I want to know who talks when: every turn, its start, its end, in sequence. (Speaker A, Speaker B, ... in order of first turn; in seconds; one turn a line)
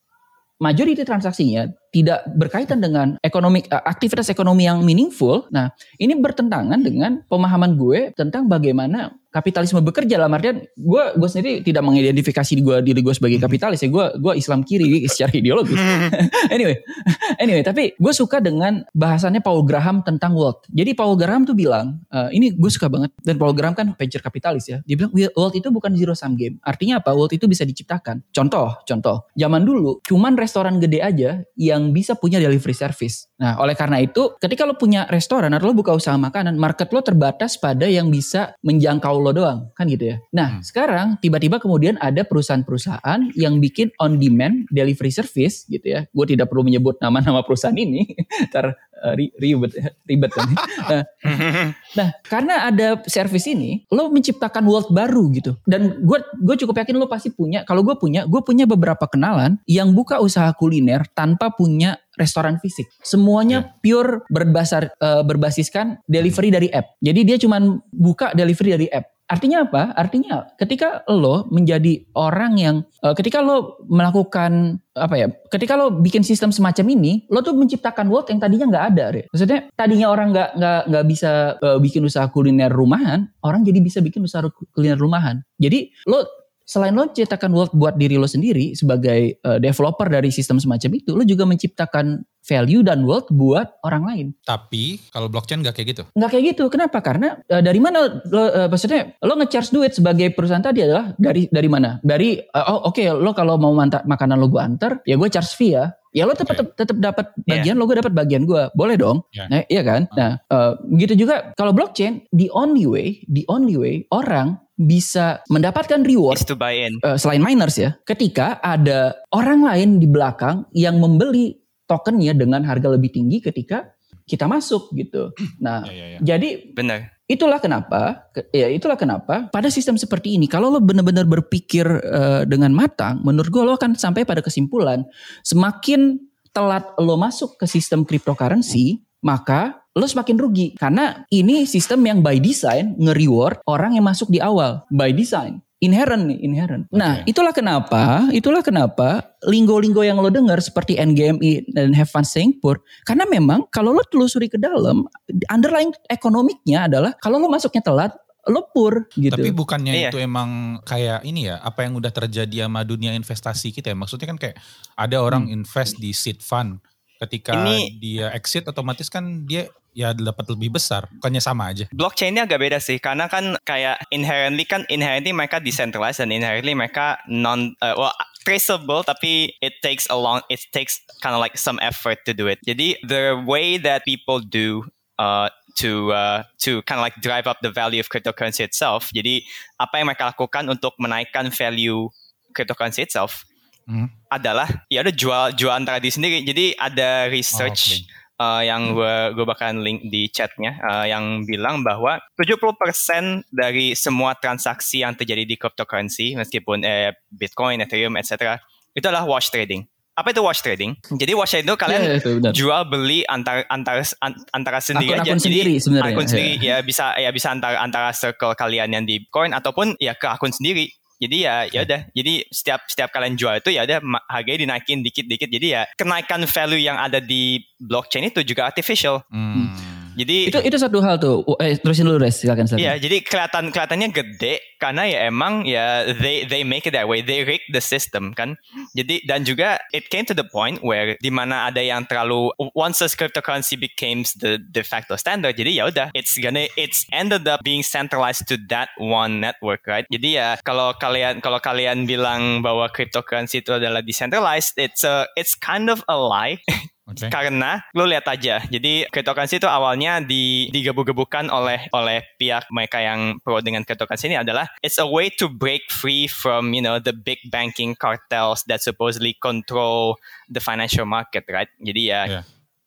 Speaker A: 0.6-94.3
Speaker B: 51.3-51.7
Speaker C: 94.5-96.1
Speaker A: 96.2-116.5
Speaker B: 116.3-117.0
Speaker A: 117.0-126.7
Speaker C: 125.9-126.2
Speaker B: 126.8-127.1
Speaker A: 127.3-159.6
Speaker C: 146.9-147.3
Speaker C: 159.3-171.9
Speaker B: 167.5-167.9
Speaker B: 171.9-193.4
Speaker C: 193.9-194.1
Speaker B: 194.3-229.2
Speaker C: 197.5-198.1
Speaker A: 211.9-212.6
Speaker A: 214.9-216.7
Speaker C: 229.3-230.7
Speaker B: 230.2-230.6
Speaker A: 230.5-232.9
Speaker B: 232.8-256.6
Speaker C: 257.1-257.3
Speaker B: 257.3-272.3